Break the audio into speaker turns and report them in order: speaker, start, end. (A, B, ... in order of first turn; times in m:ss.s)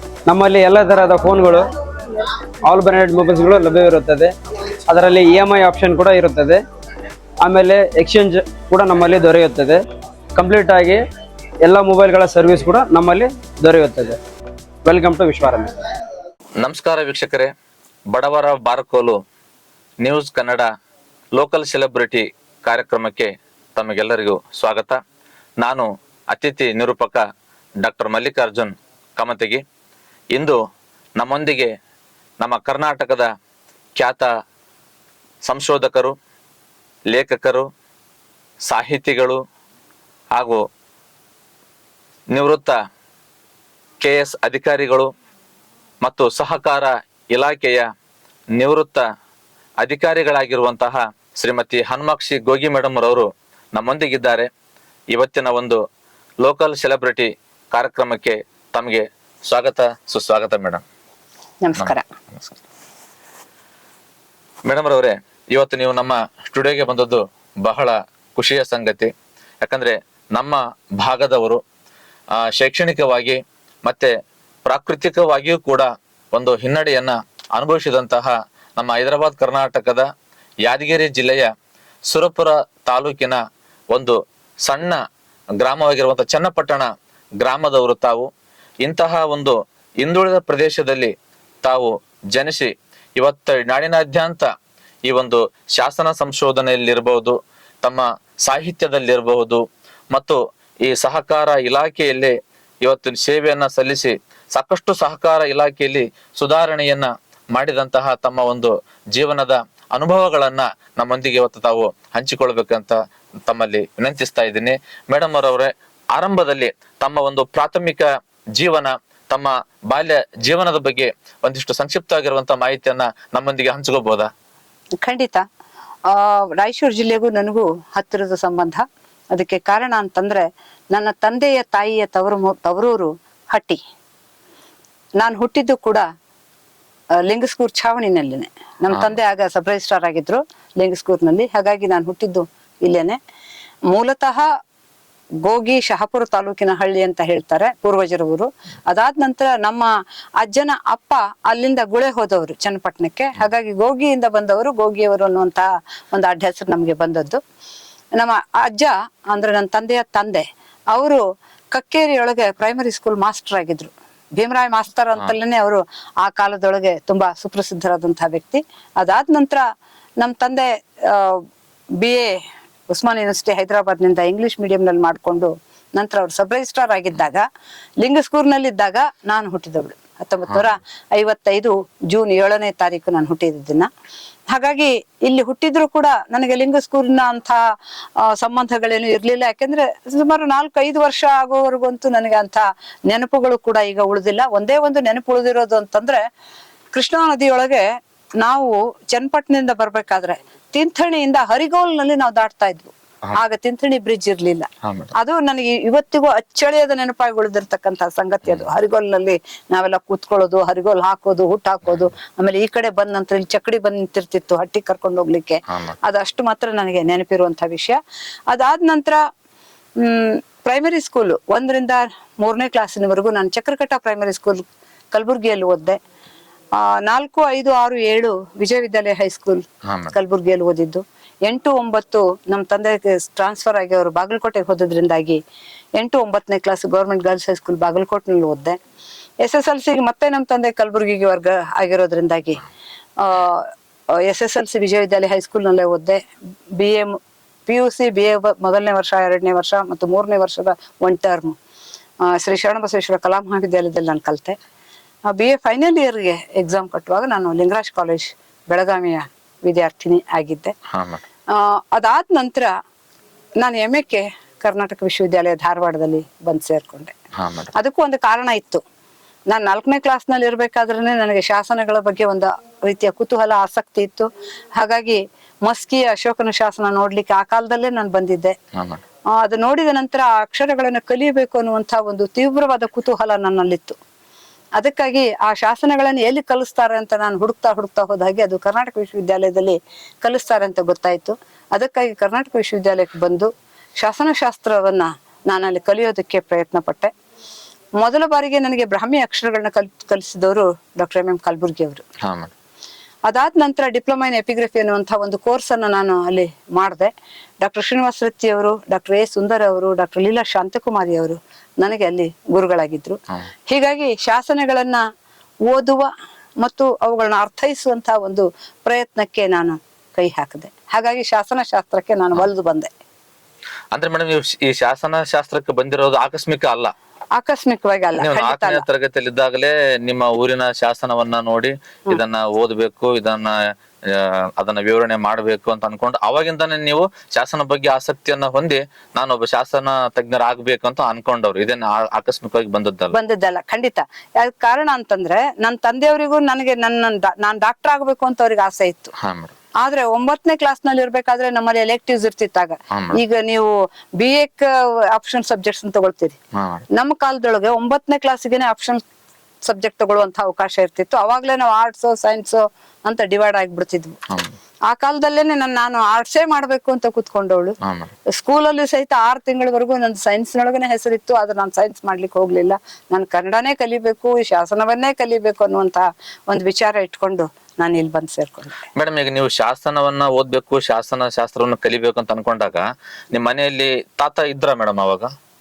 0:00.3-0:01.7 A
0:02.7-0:04.4 A
0:04.9-0:06.6 A
0:07.4-0:09.8 A
0:10.4-0:11.0 A
0:11.6-0:14.2 A
0:14.8-0:15.7 A
0:16.6-0:17.5 B
0:18.1-0:19.2 B
0:20.0-0:20.7 B
0:21.4-0:25.0 B
0:25.6-0:27.2 B
0:27.8-0:29.6 B
0:31.2-0:31.7 B
0:32.4-0:33.3 B
0:34.0-0:34.3 B
0:35.5-0:36.2 B
0:37.1-0:37.7 B
0:38.7-0:39.4 B
0:40.4-0:40.6 B
0:42.3-0:42.8 B
0:44.0-0:45.1 B
0:46.0-0:47.9 B
0:48.6-0:49.0 B
0:49.8-0:54.5 B
0:55.1-0:55.8 B
0:56.4-1:00.8 B
1:01.6-1:02.1 C
1:01.8-1:02.6 B
1:04.7-1:09.1 B
1:09.6-1:11.6 B
1:12.4-1:14.1 B
1:14.6-1:20.1 B
1:20.7-1:21.5 B
1:22.1-1:23.4 B
1:24.7-1:25.0 B
1:25.6-1:28.3 B
1:28.8-1:31.1 B
1:31.6-1:34.5 B
1:35.1-1:53.0 B
1:53.5-2:04.3 B
2:05.0-2:05.4 C
2:06.1-2:08.8 C
2:09.3-2:13.8 C
2:15.2-2:16.0 C
2:17.3-2:23.2 C
2:18.9-2:19.2 B
2:23.9-2:24.4 C
2:25.4-2:29.9 C
2:30.4-2:37.4 C
2:38.2-2:41.2 C
2:41.7-2:49.6 C
2:50.2-2:51.4 C
2:52.0-2:52.3 C
2:52.9-2:57.4 C
2:58.0-3:03.9 C
3:04.5-3:07.6 C
3:08.2-3:16.2 C
3:16.9-3:17.8 C
3:18.4-3:38.0 C
3:24.8-3:25.1 B
3:35.7-3:36.0 B
3:38.5-3:39.2 C
3:40.0-3:46.0 C
3:46.8-3:55.4 C
3:49.9-3:50.2 B
3:56.0-3:58.8 C
3:59.4-4:02.6 C
4:03.2-4:03.7 C
4:04.2-4:06.2 C
4:06.8-4:07.1 C
4:07.7-4:11.5 C
4:12.3-4:14.6 C
4:15.3-4:20.7 C
4:20.9-4:21.2 B
4:21.5-4:22.7 C
4:23.6-4:27.1 C
4:27.4-4:27.7 B
4:27.8-4:28.8 C
4:29.5-4:38.6 C
4:38.8-4:39.0 B
4:39.4-4:44.0 C
4:44.8-4:57.1 C
4:58.0-5:02.0 C
5:02.2-5:02.5 B
5:03.3-5:07.1 C
5:07.6-5:13.2 C
5:13.7-5:15.0 C
5:15.7-5:16.1 C
5:16.6-5:22.9 C
5:23.9-5:26.9 B
5:27.4-5:28.8 C
5:28.2-5:33.6 B
5:34.1-5:43.2 B
5:43.1-5:49.1 C
5:49.2-5:49.5 B
5:49.8-5:56.4 C
5:52.9-5:53.2 B
5:56.6-5:56.9 B
5:56.9-5:59.0 C
5:59.7-6:04.2 C
6:04.3-6:04.6 B
6:04.9-6:07.8 C
6:07.8-6:08.1 B
6:08.3-6:18.8 C
6:19.0-6:25.3 B